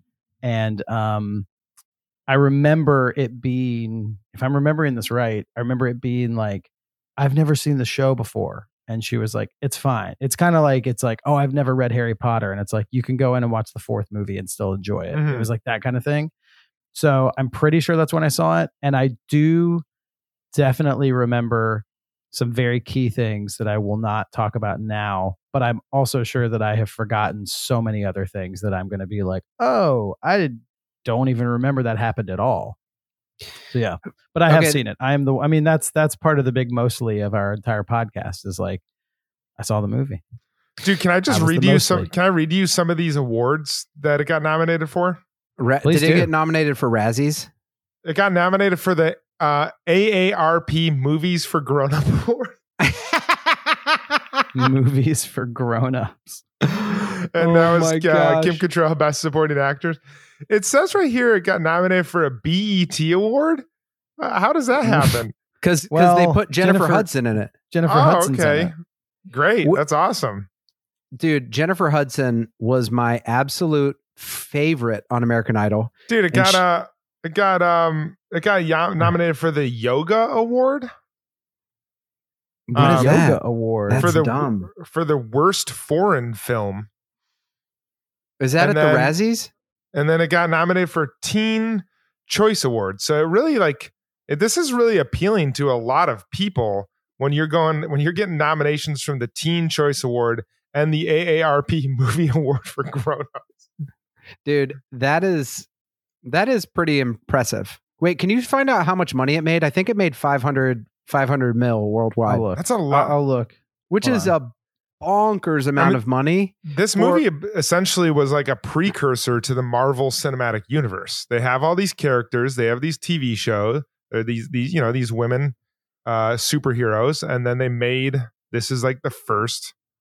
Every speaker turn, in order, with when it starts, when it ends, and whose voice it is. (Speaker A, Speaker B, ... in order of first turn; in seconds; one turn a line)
Speaker A: 0.4-1.5
Speaker A: 2.3-16.3
Speaker B: 15.1-15.5
Speaker A: 16.9-19.8
Speaker A: 20.5-32.8
Speaker A: 33.7-38.8
Speaker C: 34.5-34.8
Speaker A: 39.6-40.2
Speaker B: 40.8-45.2
Speaker A: 41.3-42.1
Speaker C: 45.6-47.5
Speaker A: 45.8-46.3
Speaker B: 48.0-54.0
Speaker A: 54.5-56.4
Speaker B: 56.7-63.6
Speaker C: 57.4-58.6
Speaker B: 64.2-65.3
Speaker C: 65.6-67.5
Speaker A: 65.9-67.1
Speaker A: 67.7-68.7
Speaker B: 67.9-68.8
Speaker B: 69.3-70.5
Speaker C: 71.2-76.6
Speaker B: 76.1-80.9
Speaker C: 82.7-84.7
Speaker B: 82.8-83.2
Speaker A: 82.8-84.1
Speaker B: 84.0-86.9
Speaker C: 88.4-89.5
Speaker B: 88.6-89.1
Speaker B: 89.9-103.7
Speaker C: 104.5-105.7
Speaker C: 106.2-112.5
Speaker A: 112.3-114.3
Speaker B: 112.6-113.2
Speaker C: 113.9-117.2
Speaker B: 116.7-125.5
Speaker B: 126.1-129.7